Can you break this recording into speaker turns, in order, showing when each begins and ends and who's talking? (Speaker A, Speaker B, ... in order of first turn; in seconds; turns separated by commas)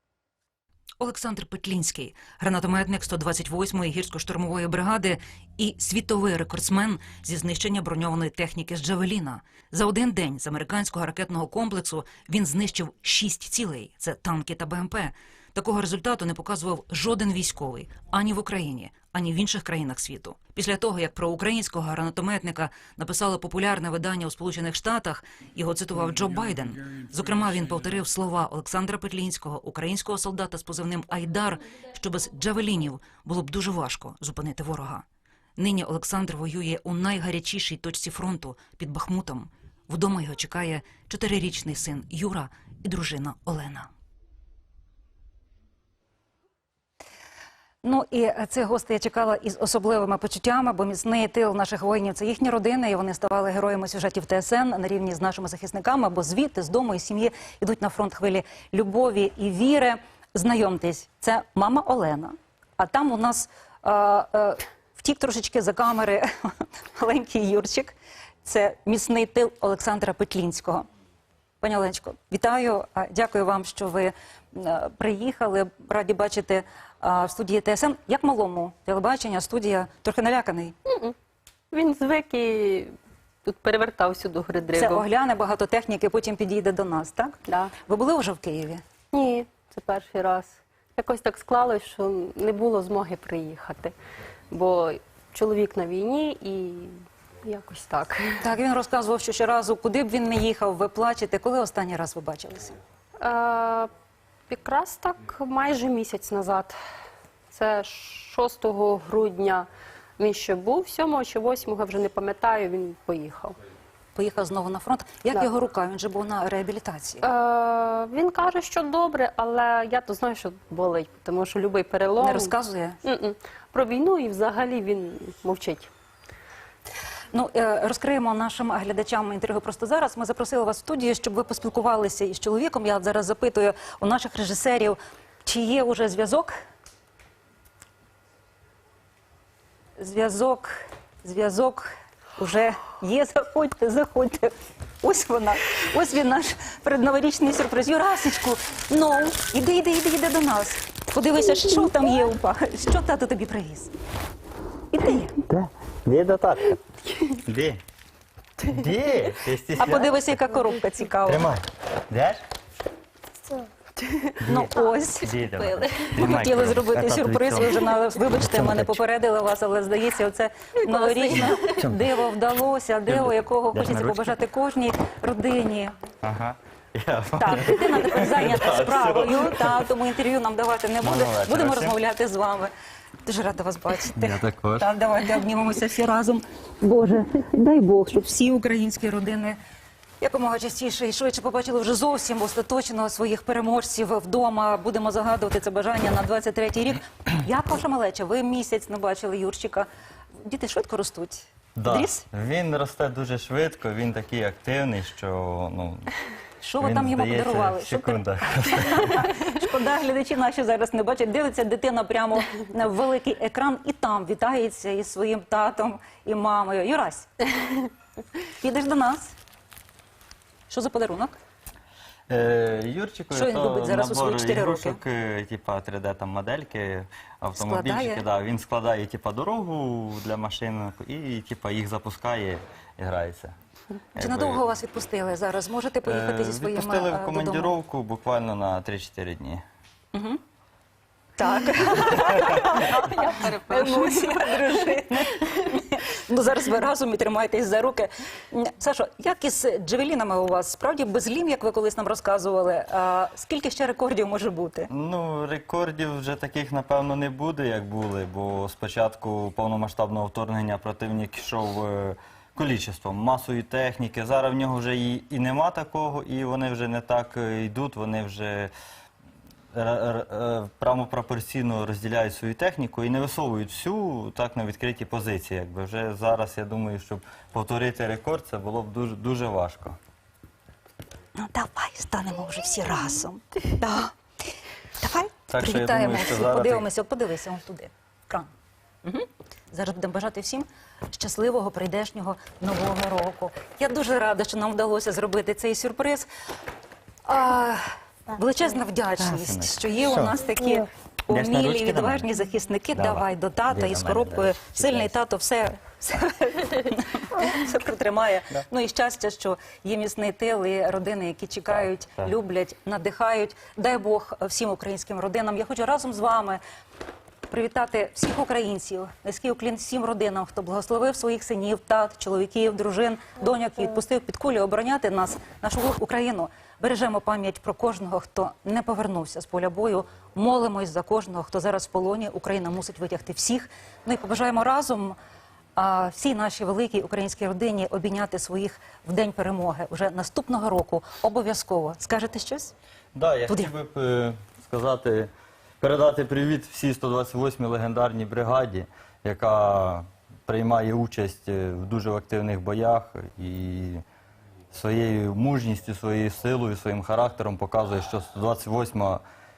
Speaker A: 1.0-35.0, Speaker A: 35.6-43.9, Speaker A: 47.8-70.8, Speaker A: 71.6-80.8, Speaker B: 80.9-81.1, Speaker B: 81.7-82.9, Speaker B: 83.4-85.0, Speaker A: 84.8-88.8, Speaker B: 87.5-87.7, Speaker B: 89.1-93.9, Speaker B: 94.5-98.5, Speaker A: 98.4-102.8, Speaker B: 103.2-103.9, Speaker B: 104.5-106.8, Speaker B: 107.5-113.6, Speaker A: 114.1-117.2, Speaker B: 117.2-125.9, Speaker A: 122.2-123.0, Speaker A: 127.3-136.5, Speaker A: 140.0-153.9, Speaker A: 154.9-155.4, Speaker C: 155.5-156.8, Speaker C: 157.3-157.8, Speaker C: 158.6-160.2, Speaker A: 159.8-161.5, Speaker C: 161.2-162.4, Speaker B: 164.0-164.4, Speaker C: 164.4-169.0, Speaker A: 164.4-165.4, Speaker B: 165.5-166.2, Speaker A: 166.2-175.9, Speaker B: 170.8-171.8, Speaker C: 171.6-172.1, Speaker C: 173.1-174.3, Speaker C: 176.2-179.8, Speaker A: 177.4-182.7, Speaker C: 181.0-182.0, Speaker A: 183.2-189.6, Speaker C: 184.1-184.9, Speaker A: 190.2-199.9, Speaker A: 200.4-202.2, Speaker C: 201.8-206.1, Speaker A: 206.6-217.3, Speaker C: 206.8-209.3, Speaker A: 218.5-219.4, Speaker A: 220.7-221.4, Speaker C: 222.3-233.5, Speaker A: 223.3-225.0, Speaker A: 227.5-228.2, Speaker C: 234.2-234.6, Speaker A: 234.2-237.7, Speaker C: 236.0-239.6, Speaker A: 240.1-240.4, Speaker A: 241.4-254.9, Speaker B: 242.5-245.0, Speaker C: 254.9-268.7, Speaker C: 269.7-280.0, Speaker A: 281.3-284.1, Speaker A: 285.0-288.5, Speaker C: 285.5-286.9, Speaker A: 289.0-296.3, Speaker A: 297.2-316.6, Speaker C: 299.2-300.4, Speaker C: 301.3-302.3, Speaker C: 302.9-305.1, Speaker A: 317.5-335.1, Speaker A: 335.8-342.7, Speaker C: 343.1-345.3, Speaker C: 345.8-354.0, Speaker C: 354.7-359.2